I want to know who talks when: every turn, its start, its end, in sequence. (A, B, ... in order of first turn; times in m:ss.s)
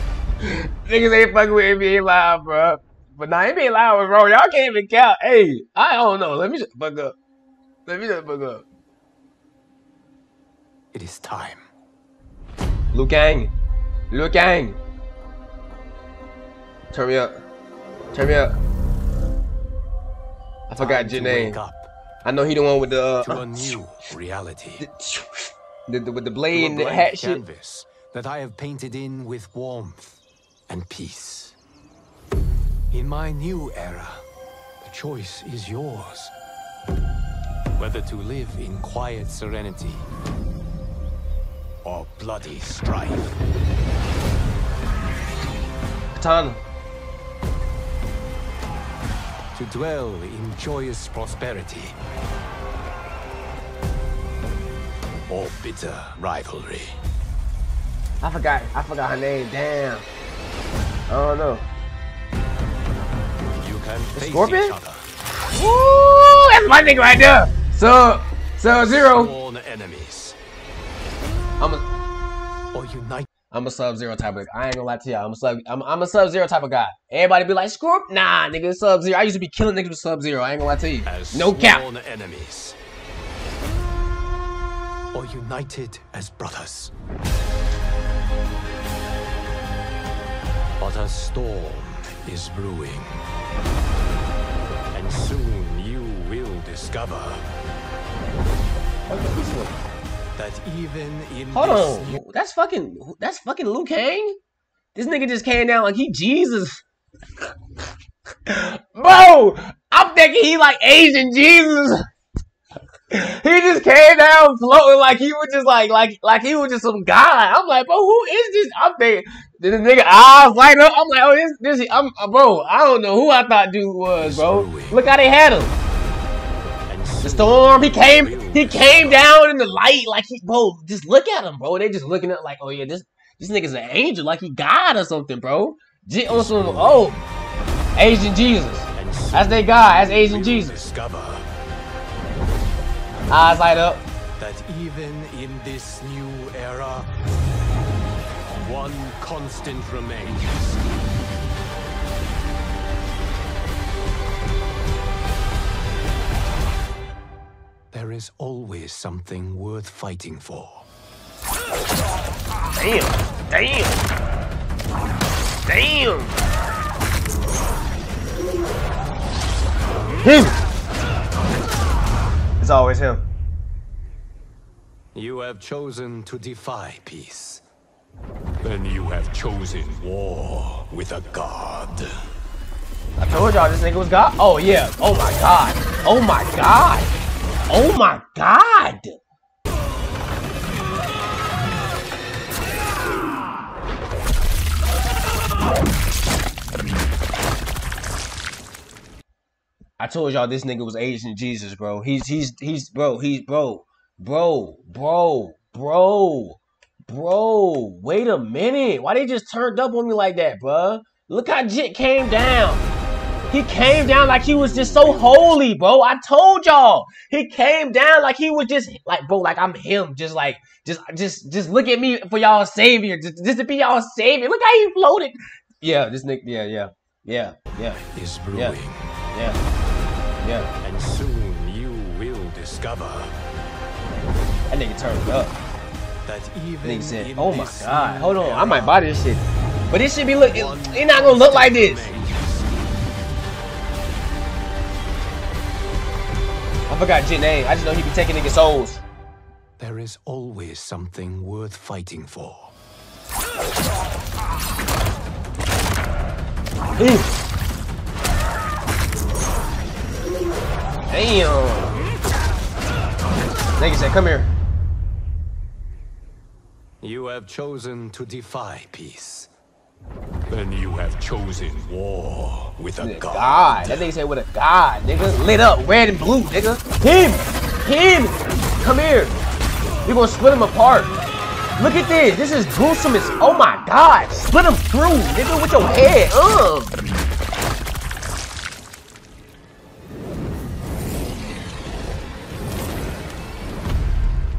0:00.4-0:07.1 A
0:07.9-0:08.6 A
0:10.9-0:11.6 B
0:12.9-0:13.5 A
0:14.1-0:14.8 A
0:16.9-0:17.3 A
0:18.1-0:18.6 A
0:20.7-0:21.6 A
0:20.8-0:21.9 B
0:22.2-0:23.8 A
0:23.2-0:24.8 B
0:24.8-0:27.4 A
0:26.5-0:31.6 B
0:32.9-0:34.2 B
0:34.8-0:36.3 B
0:37.8-0:40.1 B
0:41.8-0:43.4 B
0:46.2-0:46.6 A
0:49.6-0:52.0 B
0:55.3-0:57.0 B
0:58.2-1:00.1 A
1:01.1-1:01.7 A
1:03.6-1:05.1 B
1:04.2-1:04.8 A
1:05.5-1:09.3 A
1:08.7-1:10.4 B
1:11.6-1:11.8 A
1:12.7-1:13.3 B
1:13.5-1:21.8 A
1:21.0-1:22.8 B
1:25.1-1:26.9 B
1:30.8-1:33.2 B
1:34.9-1:37.5 B
1:39.1-1:39.8 A
1:40.4-1:42.2 B
1:41.5-1:44.4 A
1:45.0-1:46.8 A
1:48.5-1:52.0 A
1:53.1-2:05.8 A
2:04.2-2:05.0 B
2:06.9-2:09.3 B
2:07.2-2:17.2 A
2:16.3-2:17.1 B
2:18.0-2:20.8 A
2:19.0-2:21.5 B
2:23.3-2:24.0 A
2:24.4-2:27.1 B
2:28.5-2:30.8 B
2:37.9-2:40.9 B
2:42.8-2:44.0 A
2:45.7-2:46.4 A
2:50.2-2:50.6 A
2:52.6-2:53.2 A
2:55.2-2:57.6 B
2:58.6-3:02.3 B
3:03.2-3:07.1 A
3:07.7-3:09.2 A
3:20.0-3:32.8 A
3:33.5-3:48.0 A
3:33.8-3:35.6 B
3:48.0-3:49.1 B
3:49.3-3:49.6 A
3:50.4-3:50.7 A
3:50.8-3:53.4 B
3:54.7-3:55.6 A
3:56.2-3:59.1 B
3:56.8-4:02.1 A
4:00.5-4:02.9 B
4:06.9-4:09.0 A
4:09.8-4:12.7 B
4:17.0-4:17.3 A
4:21.1-4:21.9 A
4:23.8-4:24.5 A
4:27.0-4:29.5 B
4:30.5-4:34.1 B
4:33.0-4:39.4 A
4:40.0-4:41.1 A
4:41.8-4:47.0 A